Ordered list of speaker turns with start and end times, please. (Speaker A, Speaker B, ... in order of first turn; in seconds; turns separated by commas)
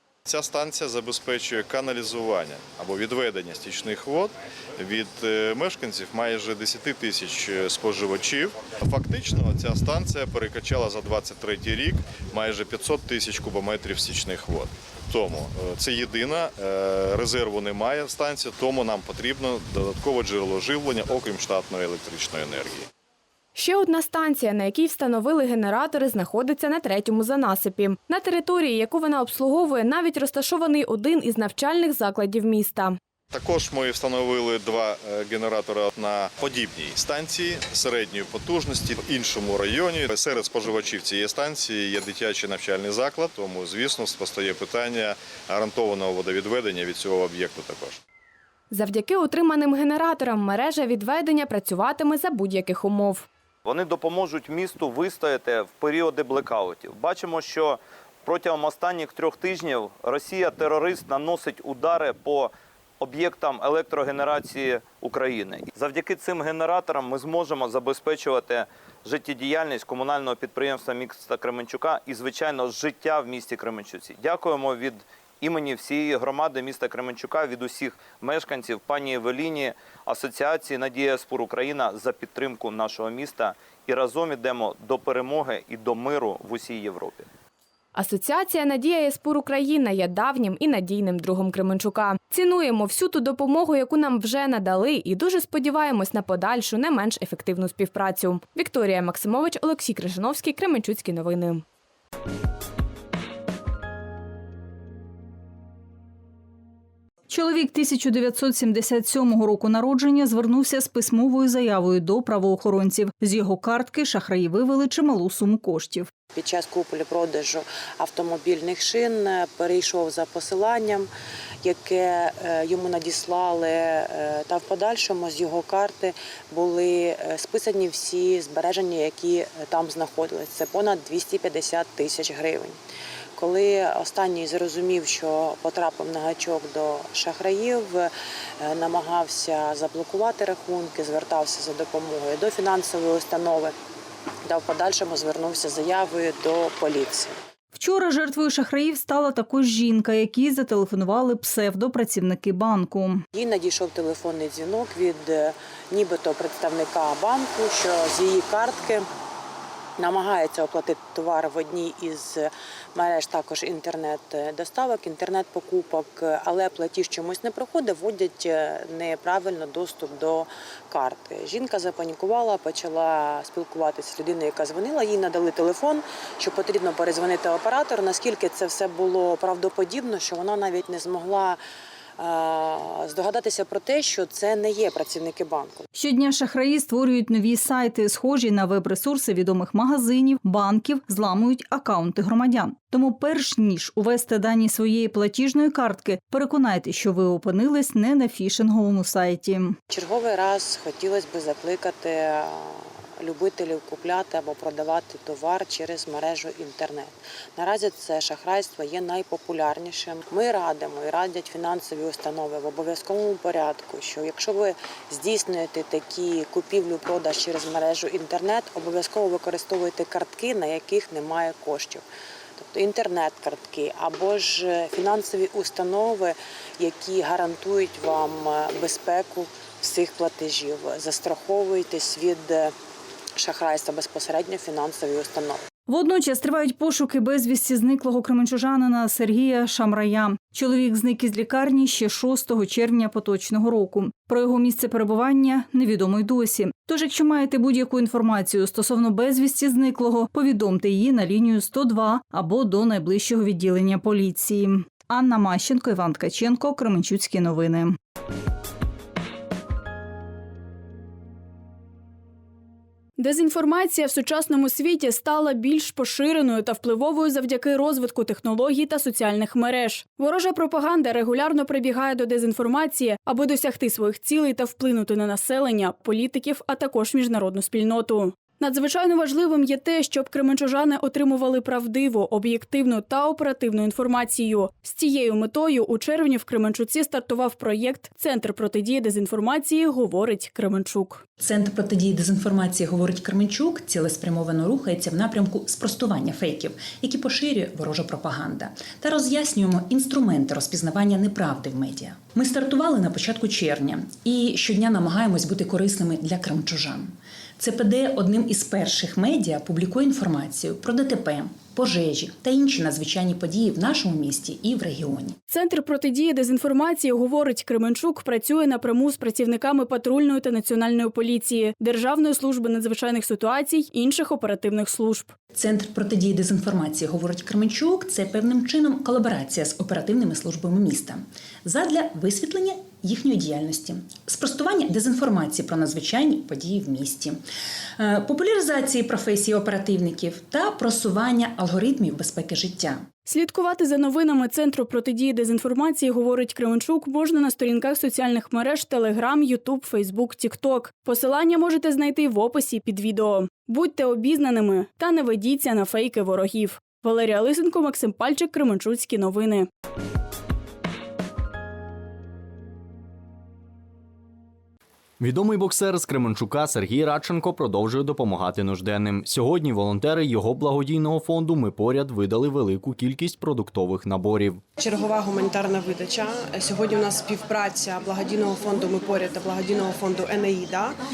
Speaker A: 0.3-22.9, Speaker B: 23.6-33.0, Speaker A: 33.3-48.0, Speaker B: 48.7-53.3, Speaker C: 53.7-87.3, Speaker B: 88.0-101.6, Speaker D: 107.3-116.1, Speaker E: 116.3-121.1, Speaker E: 121.6-132.8, Speaker E: 133.4-143.7, Speaker E: 144.5-147.4, Speaker D: 147.7-153.2, Speaker E: 153.3-159.1, Speaker E: 160.0-181.6, Speaker E: 182.2-185.8, Speaker D: 185.9-199.8, Speaker E: 199.9-222.0, Speaker E: 222.6-232.7, Speaker E: 233.4-235.6, Speaker D: 235.9-258.0, Speaker F: 263.2-291.2, Speaker G: 291.4-315.4, Speaker F: 315.5-325.3, Speaker G: 325.5-337.4, Speaker G: 338.0-343.1, Speaker F: 343.2-359.7, Speaker H: 365.2-374.6, Speaker I: 374.8-381.0